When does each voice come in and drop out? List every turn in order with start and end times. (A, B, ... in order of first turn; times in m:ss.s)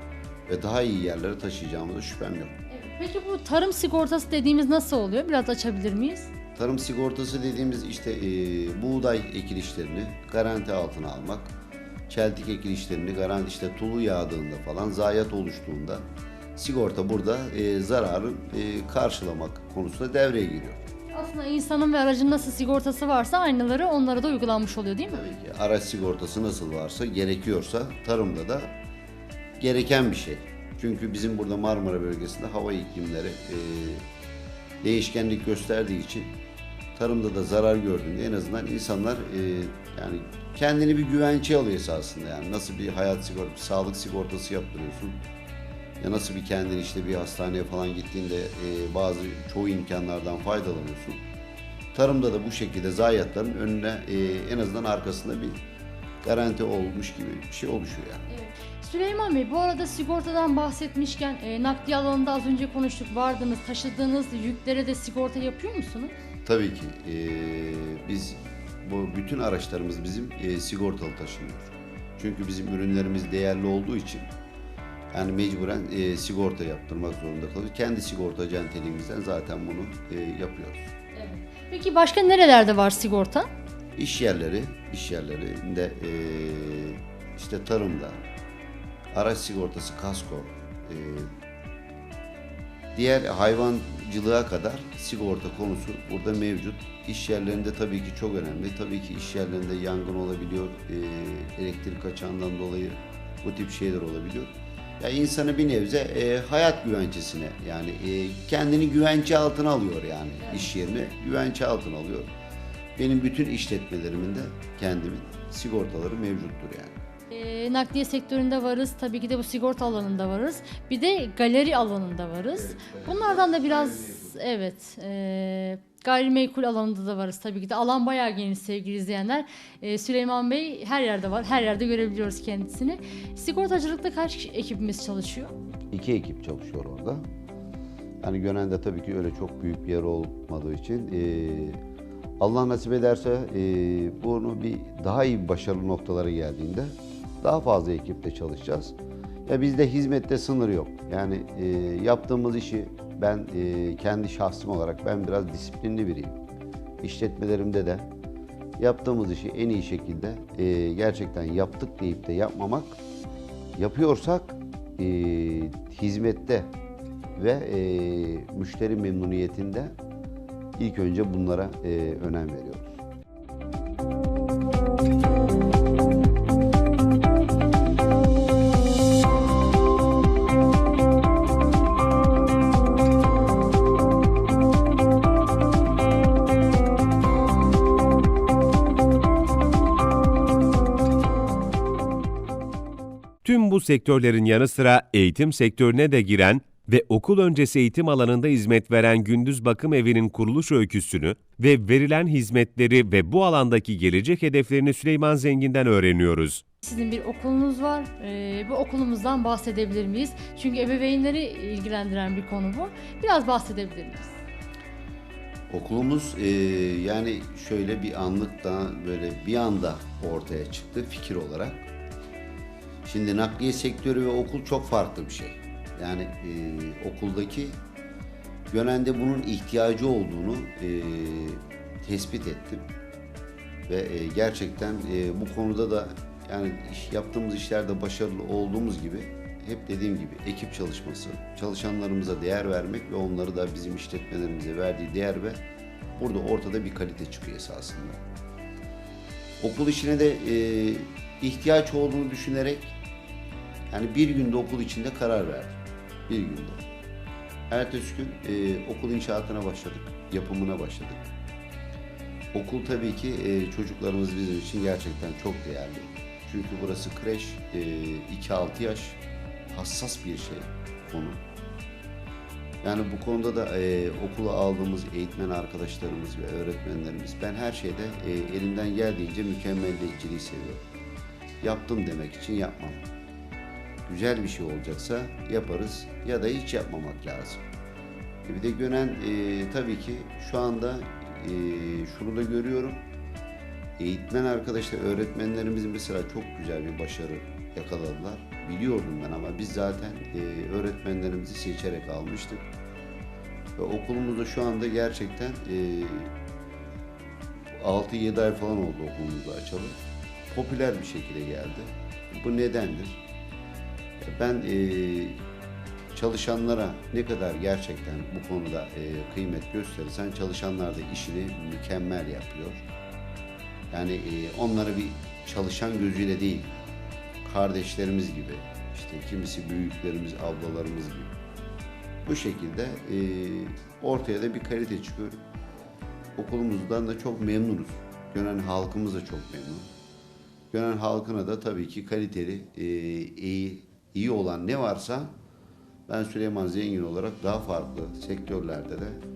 0:00.5-0:02.6 A
0:02.7-0:06.3 B
0:06.6-0:11.6 A
0:12.1-0:16.0 A
0:16.6-0:20.9 A
0:21.1-0:25.2 B
0:25.1-0:28.8 A
0:29.6-0:34.1 A
0:34.8-0:36.3 A
0:37.0-0:45.2 A
0:46.0-0:51.2 A
0:51.9-0:55.6 A
0:56.2-0:58.2 A
0:58.3-1:06.2 B
1:06.4-1:14.3 A
1:15.1-1:21.0 A
1:21.1-1:23.5 B
1:24.0-1:28.2 A
1:29.1-1:31.3 A
1:32.9-1:52.3 A
1:50.4-1:50.7 B
1:53.0-1:57.0 A
1:57.3-2:15.5 B
2:02.9-2:04.2 A
2:15.9-2:17.2 A
2:18.2-2:21.8 A
2:22.4-2:29.0 A
2:29.5-2:36.4 A
2:37.0-2:38.1 A
2:38.8-2:43.0 A
2:43.8-2:46.7 A
2:47.4-2:50.0 A
2:50.8-2:53.0 A
3:13.4-3:26.6 C
3:26.8-3:34.4 B
3:35.7-3:41.9 A
3:43.0-3:47.8 A
3:48.7-3:52.9 A
3:53.9-4:05.6 A
4:06.2-4:08.2 A
4:09.6-4:13.0 A
4:13.9-4:16.8 A
4:17.7-4:21.3 A
4:22.5-4:31.4 A
4:32.8-4:40.9 A
4:41.6-4:43.0 A
4:44.1-4:47.6 A
4:48.4-4:53.1 A
4:54.0-5:02.7 A
5:03.8-5:06.4 A
5:07.7-5:10.0 A
5:10.5-5:13.2 A
5:14.2-5:15.4 A
5:16.1-5:22.9 A
5:23.9-5:26.8 A
5:27.4-5:31.4 A
5:32.2-5:35.4 A
5:36.4-5:39.9 A
5:40.7-5:45.3 A
5:46.1-5:49.2 A